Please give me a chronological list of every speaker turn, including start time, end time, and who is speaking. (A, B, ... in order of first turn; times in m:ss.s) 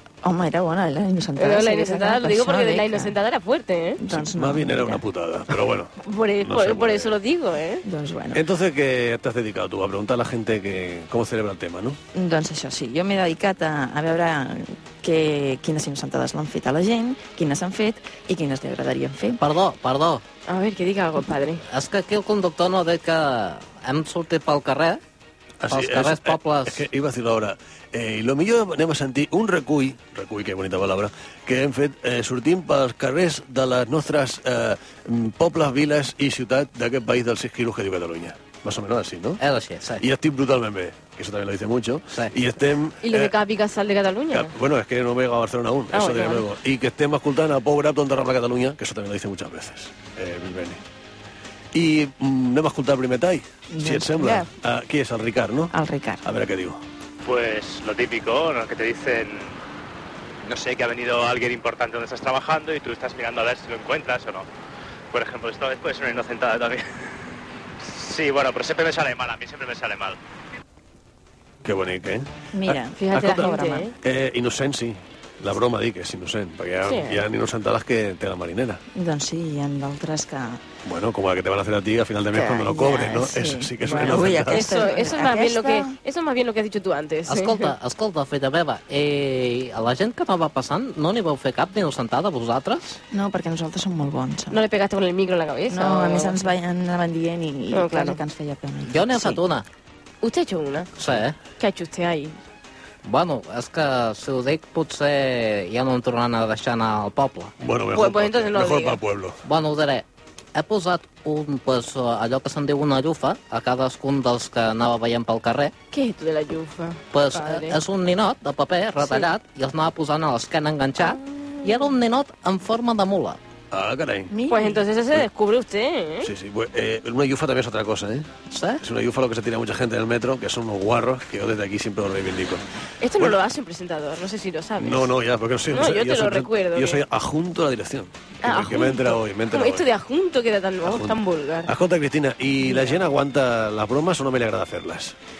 0:00.2-0:03.1 A
0:01.4-0:04.0 B
0:04.0-0:05.0 A
0:04.1-0:07.1 C
0:06.0-0:07.8 B
0:07.8-0:08.4 A
0:08.3-0:12.0 C
0:12.1-0:19.4 A
0:19.4-0:20.2 D
0:20.5-0:21.6 B
0:21.7-0:25.0 D
0:25.6-0:39.4 C
0:25.7-0:26.8 D
0:39.4-0:40.0 D
0:40.0-0:43.3 C
0:43.0-0:44.5 B
0:44.3-0:50.8 C
0:45.9-0:46.4 B
0:51.7-0:55.7 C
0:53.7-0:54.5 A
0:55.7-0:56.2 A
0:56.2-0:56.8 C
0:57.2-0:59.6 E
1:00.4-1:04.5 E
1:05.1-1:06.8 E
1:07.8-1:10.2 E
1:11.6-1:18.8 C
1:12.5-1:13.9 A
1:13.0-1:13.9 B
1:16.8-1:17.2 B
1:18.9-1:20.6 A
1:20.8-1:24.8 C
1:22.3-1:26.0 A
1:24.0-1:27.7 B
1:27.3-1:33.0 D
1:33.1-1:34.6 A
1:34.5-1:36.5 B
1:35.7-1:39.4 A
1:37.7-1:38.2 B
1:38.9-1:39.6 D
1:40.2-1:40.9 B
1:41.0-1:41.4 D
1:41.6-1:42.4 B
1:43.0-1:47.5 D
1:47.6-1:49.4 C
1:47.9-1:49.0 B
1:49.4-1:55.7 D
1:55.9-1:57.8 B
1:57.1-2:03.4 D
1:59.0-1:59.3 B
2:01.0-2:01.9 B
2:03.7-2:04.3 C
2:04.3-2:04.8 A
2:04.5-2:06.3 B
2:06.2-2:08.3 C
2:08.5-2:08.8 D
2:08.8-2:12.6 C
2:13.0-2:15.1 B
2:14.8-2:19.8 C
2:15.7-2:17.0 B
2:18.4-2:21.7 B
2:20.8-2:25.1 C